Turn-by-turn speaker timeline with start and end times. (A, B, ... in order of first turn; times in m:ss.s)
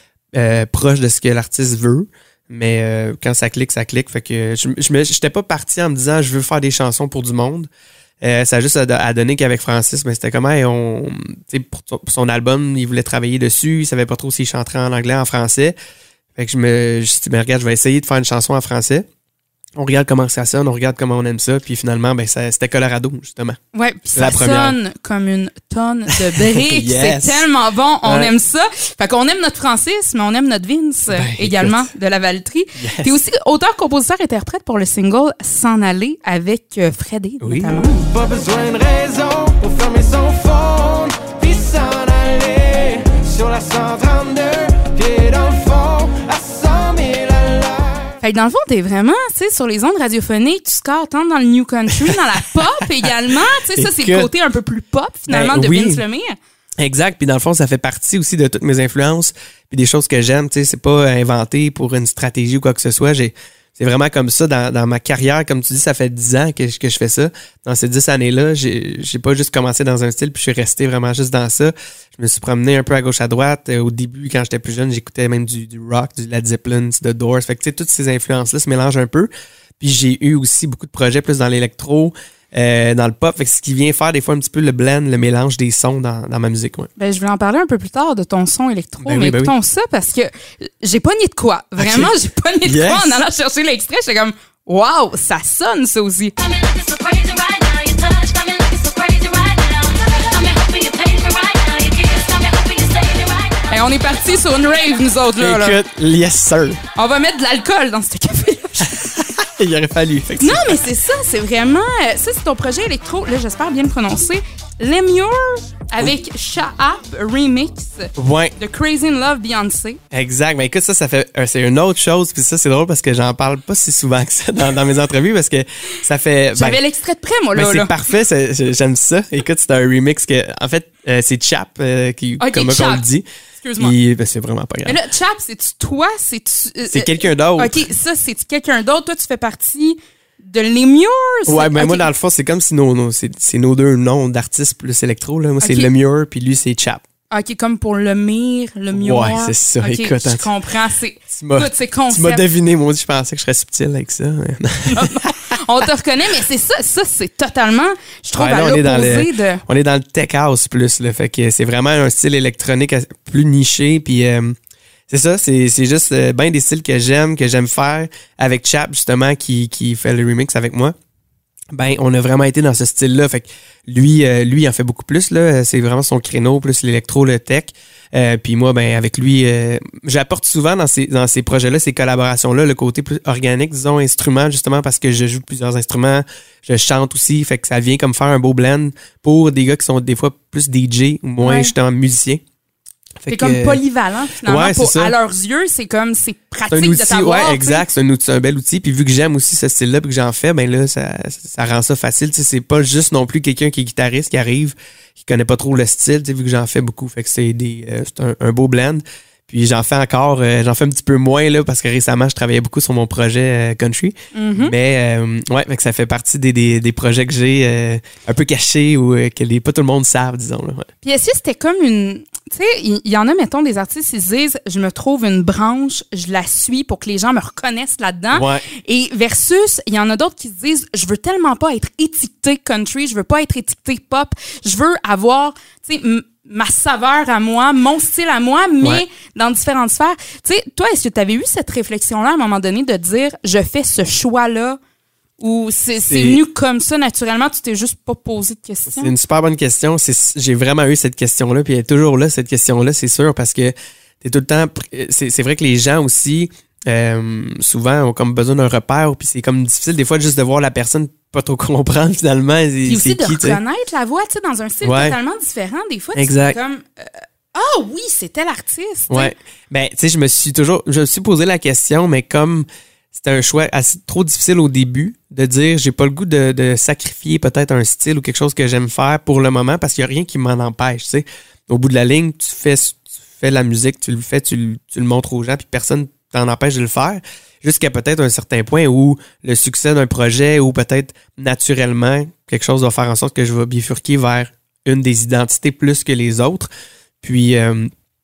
0:00.4-0:07.7 A
0:08.2-0:15.8 A
0:16.4-0:19.1 A
0:19.8-0:23.6 A
0:23.7-0:38.1 B
0:24.1-0:24.8 A
0:26.1-0:27.5 A
0:28.0-0:28.3 A
0:31.1-0:31.9 A
0:32.8-0:33.2 A
0:37.4-0:37.9 A
0:38.1-0:47.9 C
0:48.2-0:56.4 B
0:53.7-0:54.3 A
0:55.3-0:56.0 A
0:56.8-1:19.3 A
1:19.8-1:26.9 A
1:27.0-1:45.8 B
1:29.0-1:29.5 A
1:31.8-1:32.1 A
1:32.6-1:33.2 A
1:45.4-1:46.8 A
1:46.9-1:49.0 B
1:48.9-1:50.8 A
1:50.4-2:00.0 B
1:58.2-1:58.5 A
2:00.1-2:06.8 A
2:06.6-2:07.9 B
2:07.5-2:13.2 A
2:12.4-2:13.1 B
2:13.6-2:14.0 B
2:13.8-2:15.0 A
2:14.8-2:22.1 B
2:16.9-2:17.8 A
2:21.5-2:27.0 A
2:25.6-2:25.9 B
2:27.3-2:32.4 B
2:28.9-2:30.5 A
2:31.3-2:35.3 A
2:34.9-2:39.6 B
2:38.4-2:44.6 A
2:45.1-2:50.9 A
2:51.7-3:12.4 A
3:11.4-3:11.7 B
3:13.2-3:13.8 A
3:13.3-3:17.9 B
3:14.4-3:15.2 A
3:16.7-3:40.9 A
3:34.3-3:34.7 B
3:41.0-4:04.8 B
3:48.3-3:48.7 A
4:05.4-4:09.1 B
4:06.0-4:06.4 A
4:08.9-4:23.6 A
4:22.8-4:29.3 B
4:24.8-4:25.2 A
4:26.1-4:26.6 A
4:29.1-4:56.7 A
4:57.2-4:57.9 A